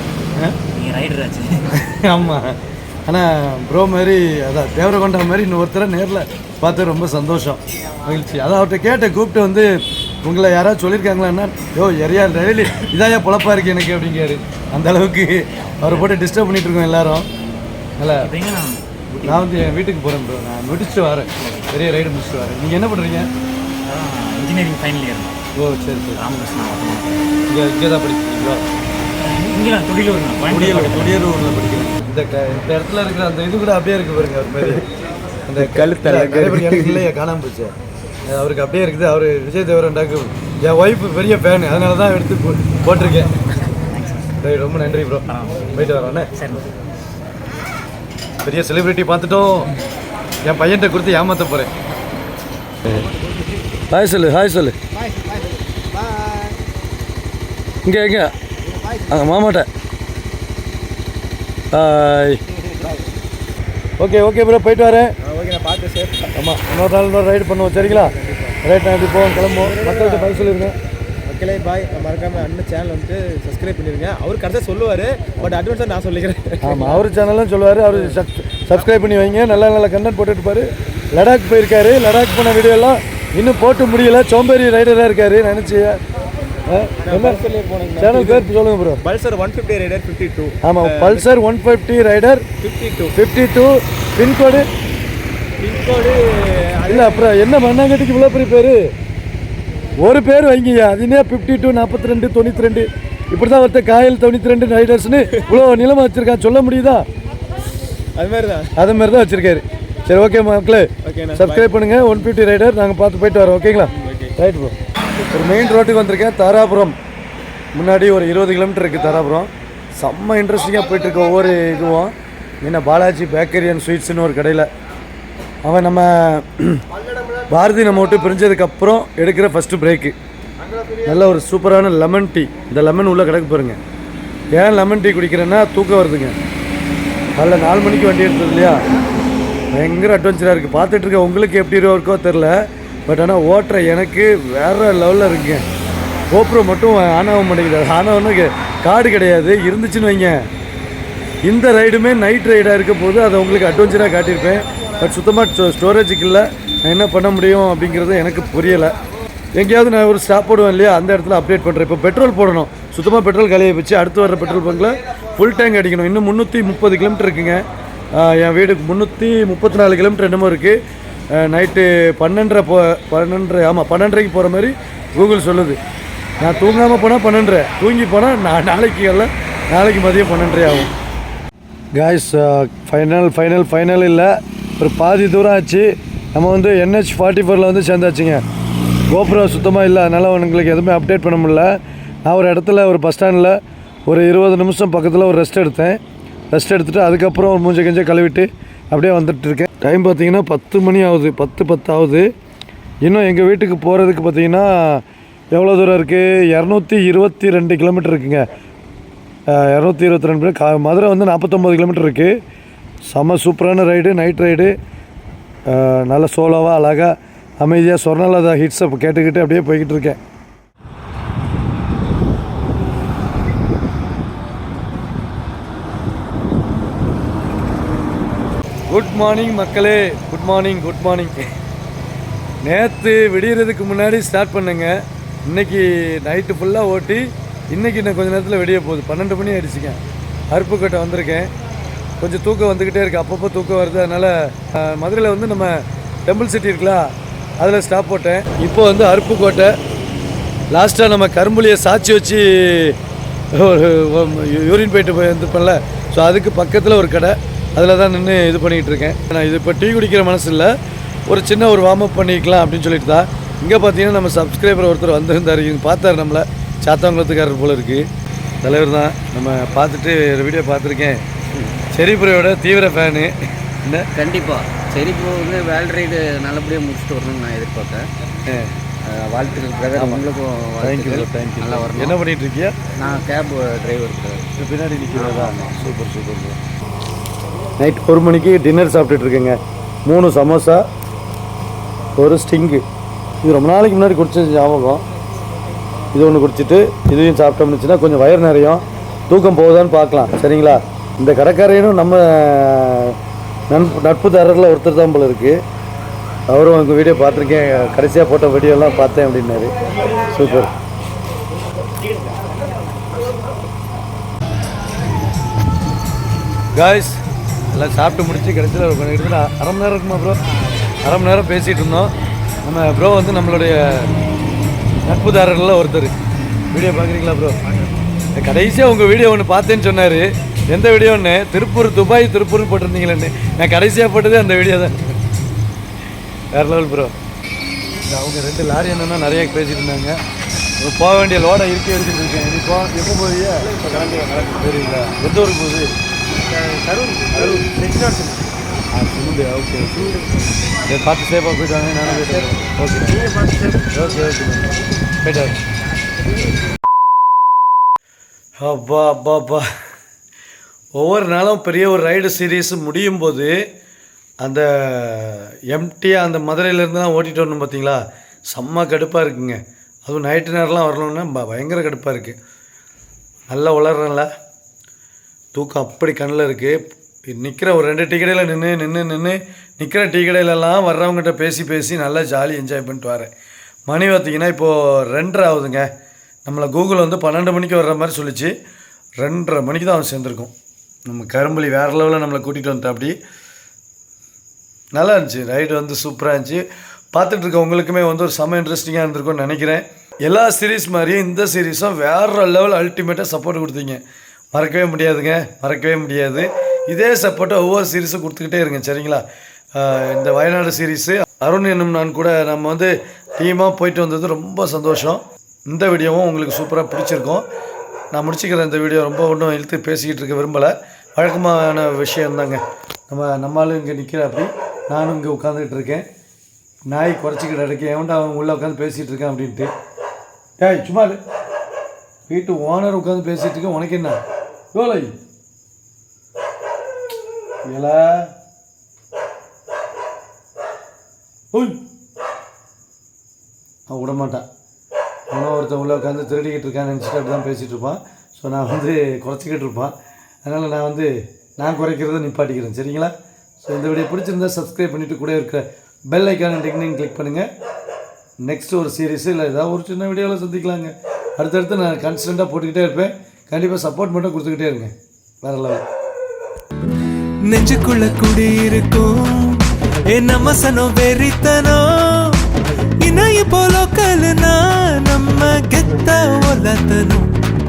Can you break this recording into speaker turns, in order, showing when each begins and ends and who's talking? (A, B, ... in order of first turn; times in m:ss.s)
0:00.7-0:01.7 A
0:01.8-0:17.3 B
0:18.0-0:18.3 B
0:18.2-0:19.5 A
0:19.2-0:23.3 B
0:21.4-0:21.7 A
0:23.8-0:25.4 A
0:25.6-0:26.2 B
0:26.2-0:27.5 A
0:27.5-0:28.6 B
0:29.2-0:31.2 A
0:30.5-0:34.9 B
0:35.4-0:37.7 B
0:35.6-0:37.1 C
0:38.3-0:43.3 B
0:43.9-0:44.3 A
0:44.4-0:46.3 B
0:45.2-0:45.8 A
0:46.3-0:46.6 A
0:48.4-0:49.7 B
0:50.4-0:51.7 B
0:53.0-0:53.4 C
0:53.9-0:54.7 B
0:54.9-0:56.6 C
0:57.8-0:58.3 B
0:58.7-0:59.0 C
0:59.1-0:59.7 B
1:01.7-1:02.4 B
1:02.8-1:03.0 C
1:04.0-1:05.1 B
1:05.2-1:06.3 C
1:06.4-1:10.7 B
1:07.8-1:08.6 C
1:09.6-1:10.4 C
1:11.2-1:17.1 C
1:16.6-1:26.0 B
1:17.9-1:18.2 C
1:26.7-1:27.4 B
1:27.0-1:31.3 C
1:28.0-1:29.0 B
1:30.6-1:32.4 B
1:32.6-1:33.2 C
1:33.1-1:34.6 B
1:35.6-1:37.4 C
1:36.9-1:38.8 B
1:40.0-1:47.0 B
1:45.3-1:45.6 C
1:48.2-1:48.7 C
1:48.8-1:54.7 B
1:51.0-1:52.0 C
1:53.8-1:54.3 C
1:55.3-1:57.0 B
1:57.7-2:04.7 B
2:05.6-2:06.8 B
2:07.5-2:10.1 B
2:11.0-2:13.8 B
2:14.5-2:16.3 B
2:17.4-2:18.8 B
2:19.7-2:25.6 B
2:26.3-2:30.4 B
2:31.4-2:38.9 B
2:39.6-2:47.6 B
2:48.1-2:50.8 B
2:51.3-2:55.8 B
2:56.4-3:00.9 B
3:02.0-3:08.4 B
3:09.1-3:11.7 B
3:12.2-3:16.0 B
3:16.5-3:22.3 B
3:23.0-3:28.4 B
3:29.5-3:32.3 B
3:33.1-3:34.7 B
3:35.7-3:40.2 B
3:48.9-3:51.4 B
3:52.6-4:00.0 B
4:00.5-4:01.5 B
4:02.2-4:09.7 B
4:10.7-4:13.0 B
4:13.5-4:20.7 B
4:21.3-4:28.0 B
4:28.6-4:31.2 B
4:31.9-4:34.1 B
4:34.2-4:38.1 D
4:38.5-4:38.7 B
4:39.0-4:42.2 D
4:39.9-4:40.2 B
4:40.8-4:42.7 B
4:43.0-4:44.5 D
4:44.6-4:46.6 B
4:45.1-4:45.8 D
4:47.8-4:50.8 B
4:52.2-4:52.8 B
4:53.4-4:55.0 B
4:56.1-5:03.2 B
5:03.7-5:05.6 B
5:06.5-5:10.7 B
5:16.8-5:17.2 B
5:17.7-5:20.4 B
5:21.0-5:22.1 B
5:22.6-5:24.1 B
5:25.0-5:26.2 B
5:26.7-5:27.6 B
5:28.3-5:35.1 B
5:36.5-5:37.1 B
5:38.1-5:40.2 B
5:40.8-5:43.7 B
5:43.6-5:44.8 C
5:44.6-5:45.9 B
5:46.4-5:48.5 C
5:47.4-5:47.6 B
5:48.9-5:50.2 B
5:50.9-5:53.2 B
5:52.0-5:52.5 C
5:53.1-5:54.0 C
5:53.9-5:55.6 B
5:58.6-5:59.7 B
6:01.0-6:03.5 B
6:04.4-6:12.4 B
6:13.5-6:14.3 B
6:15.5-6:23.3 B
6:23.9-6:25.9 B
6:26.4-6:28.5 B
6:29.2-6:30.5 B
6:31.1-6:33.1 B
6:34.9-6:44.0 B
6:44.5-6:49.2 B
6:49.8-6:57.4 B
6:58.1-7:06.0 B
7:06.9-7:09.7 B
7:10.6-7:11.2 B
7:12.3-7:14.2 B
7:14.7-7:15.1 B
7:17.6-7:18.3 B
7:21.5-7:21.8 B
7:23.9-7:24.4 B
7:25.3-7:29.9 B
7:30.4-7:33.1 B
7:33.6-7:37.5 B
7:38.4-7:45.8 B
7:47.5-7:52.4 E
7:53.0-7:57.3 E